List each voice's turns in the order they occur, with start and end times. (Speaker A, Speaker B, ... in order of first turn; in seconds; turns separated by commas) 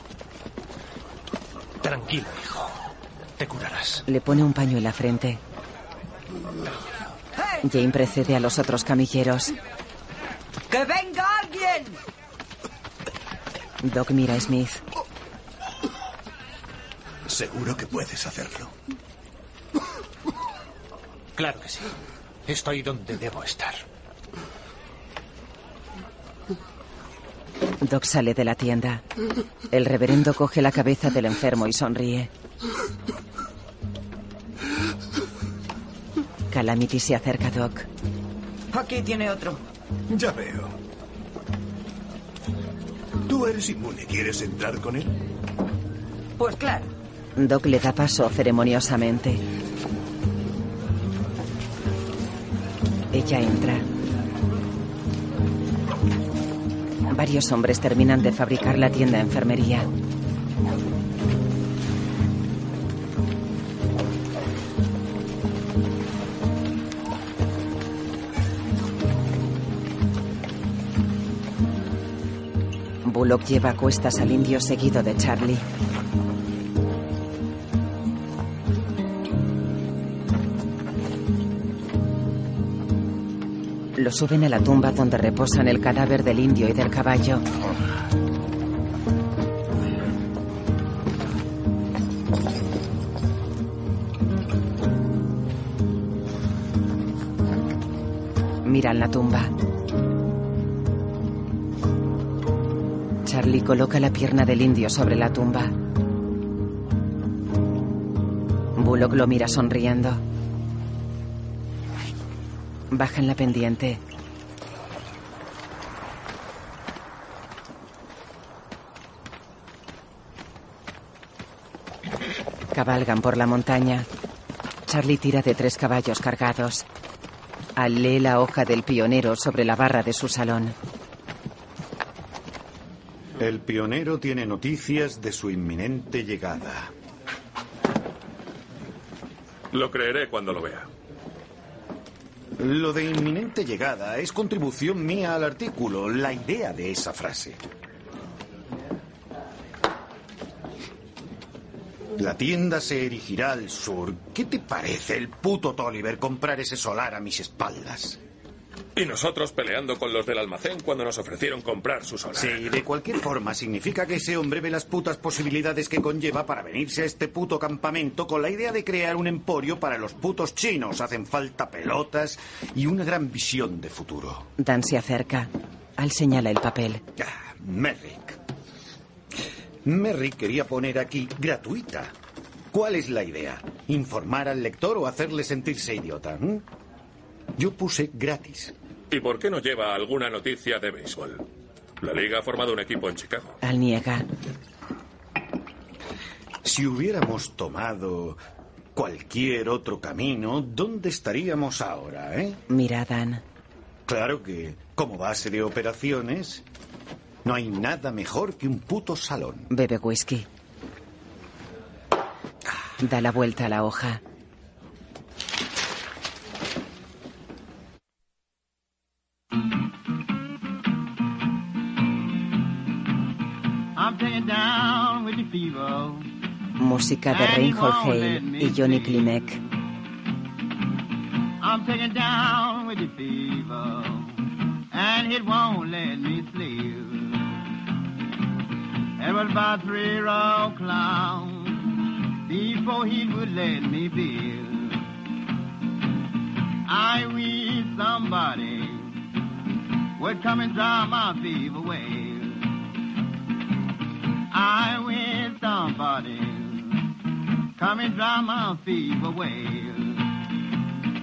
Speaker A: 1.8-2.7, Speaker A: 3.4-4.0, Speaker B: 4.1-5.4, Speaker B: 7.6-9.5, Speaker C: 10.7-12.0, Speaker B: 13.8-14.8, Speaker D: 17.3-18.7, Speaker A: 21.3-21.9, Speaker A: 22.5-23.8, Speaker B: 27.8-29.0, Speaker B: 29.7-32.3, Speaker B: 36.5-37.9, Speaker C: 38.7-39.6, Speaker D: 40.1-40.7, Speaker D: 43.3-45.1, Speaker C: 46.4-46.9, Speaker B: 47.4-49.4, Speaker B: 53.1-53.8, Speaker B: 57.1-59.9, Speaker B: 73.0-75.6, Speaker B: 84.0-87.4, Speaker B: 98.6-99.5, Speaker B: 103.2-105.7, Speaker B: 108.8-110.2, Speaker B: 112.9-114.0, Speaker B: 122.7-124.1, Speaker B: 124.9-126.8, Speaker B: 127.8-130.7, Speaker E: 133.4-136.9, Speaker F: 139.7-140.9, Speaker E: 142.6-147.6, Speaker E: 152.2-158.2, Speaker F: 158.9-162.8, Speaker E: 162.3-174.5, Speaker B: 174.6-177.0, Speaker E: 177.2-178.4, Speaker E: 179.8-182.1, Speaker E: 182.7-186.6, Speaker E: 187.6-188.7, Speaker F: 189.1-191.4, Speaker F: 192.0-193.6, Speaker B: 193.6-194.2, Speaker E: 196.6-198.4, Speaker E: 198.9-202.6, Speaker B: 202.7-203.4, Speaker E: 204.1-206.6, Speaker E: 207.4-209.7, Speaker B: 209.7-210.5, Speaker B: 213.0-214.2, Speaker G: 223.9-226.3, Speaker B: 226.8-229.6, Speaker G: 227.3-229.6, Speaker G: 231.6-237.6, Speaker G: 239.2-245.1, Speaker G: 246.9-249.1, Speaker G: 250.2-252.8, Speaker G: 254.5-257.0, Speaker G: 257.8-260.3